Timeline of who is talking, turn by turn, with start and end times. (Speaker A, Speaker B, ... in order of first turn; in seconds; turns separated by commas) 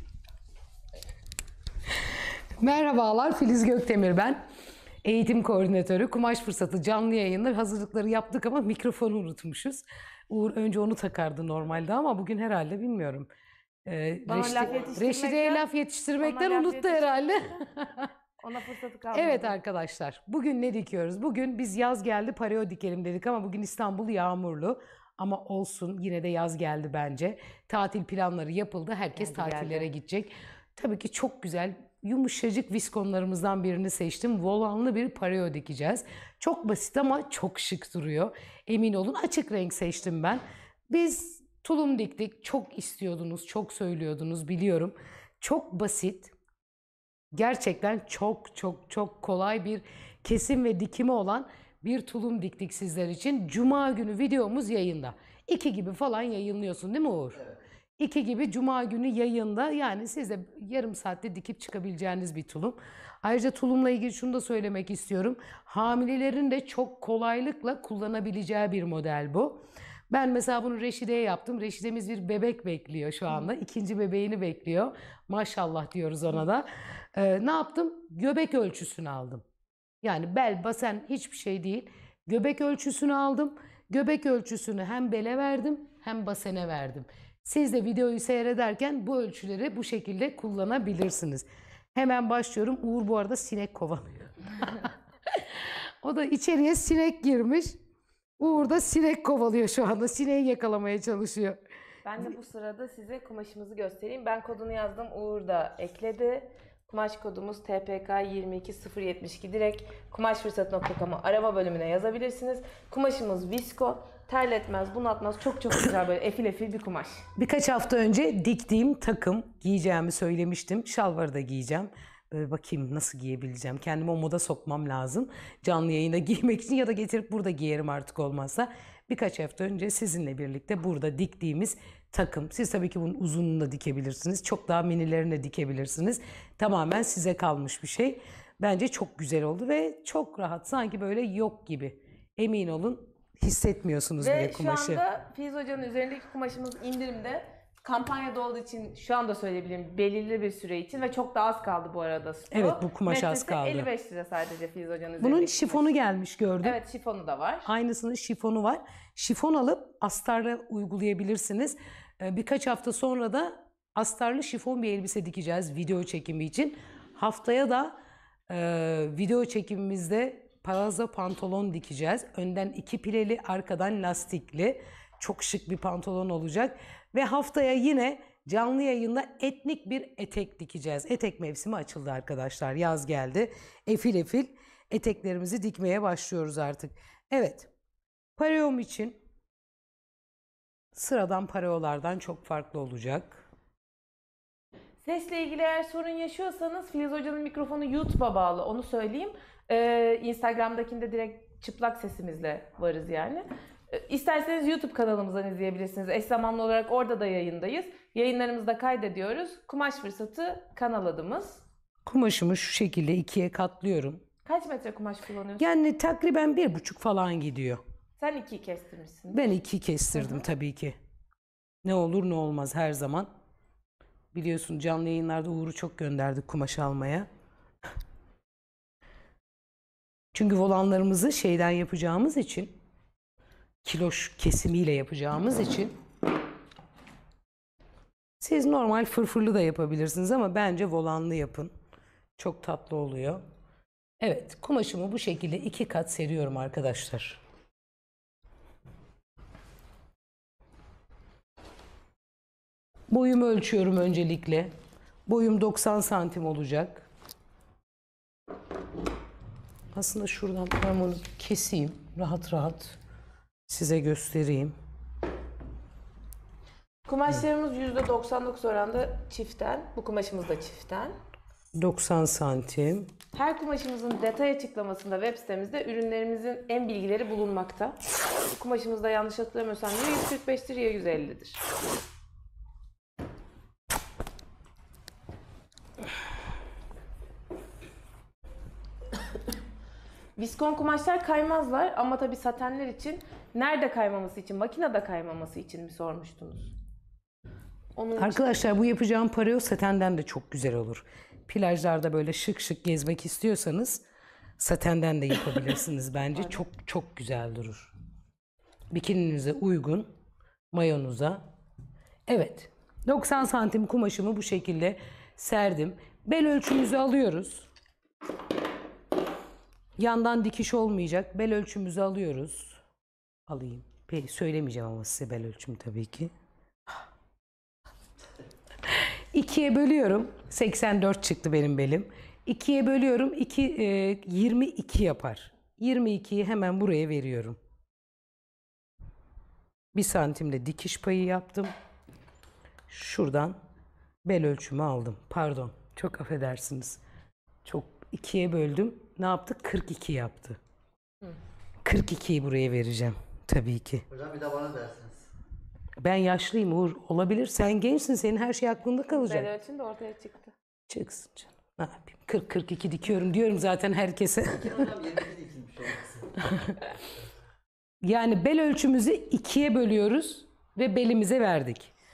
Speaker A: 1.9-4.4, Speaker A: 5.0-13.3, Speaker A: 13.8-18.1, Speaker B: 14.2-15.6, Speaker C: 14.4-15.0, Speaker B: 16.2-17.6, Speaker B: 18.4-19.5, Speaker A: 19.1-46.3, Speaker B: 29.1-29.9, Speaker A: 47.3-57.4, Speaker A: 58.0-79.4, Speaker A: 80.0-97.8, Speaker A: 98.4-101.6, Speaker B: 102.0-117.2, Speaker A: 117.3-145.0, Speaker B: 144.2-155.9, Speaker A: 152.5-153.9, Speaker A: 155.2-156.8, Speaker B: 156.6-157.7, Speaker A: 157.7-167.9, Speaker A: 168.5-187.7, Speaker A: 188.4-189.2, Speaker A: 190.9-193.4, Speaker B: 195.0-211.6, Speaker A: 212.1-214.2, Speaker B: 214.4-215.7, Speaker A: 215.6-217.8, Speaker B: 218.2-219.5, Speaker A: 219.3-221.0, Speaker B: 220.1-220.4, Speaker A: 221.8-223.3, Speaker A: 224.3-227.3, Speaker A: 230.3-232.8, Speaker A: 233.8-235.9, Speaker A: 238.4-241.7, Speaker A: 242.4-243.4, Speaker A: 244.2-247.4, Speaker A: 253.1-254.7, Speaker A: 255.3-257.1, Speaker A: 259.9-263.0, Speaker A: 263.7-264.8, Speaker B: 267.1-271.1, Speaker A: 271.8-273.1, Speaker B: 273.3-281.6, Speaker B: 290.4-296.7, Speaker B: 297.9-298.6, Speaker A: 298.2-304.0, Speaker A: 304.6-307.9, Speaker B: 306.4-306.6, Speaker A: 308.9-310.1, Speaker A: 310.7-311.5, Speaker A: 312.3-317.7, Speaker A: 320.0-322.8, Speaker A: 323.5-326.3, Speaker A: 328.9-337.6, Speaker A: 339.9-341.7, Speaker A: 342.9-343.6, Speaker A: 344.2-347.0, Speaker A: 347.6-350.6, Speaker A: 351.8-354.1, Speaker C: 354.1-355.3, Speaker A: 356.0-359.5, Speaker B: 359.1-360.5, Speaker A: 360.9-364.9, Speaker C: 364.6-366.4, Speaker A: 366.4-366.8, Speaker A: 368.0-371.9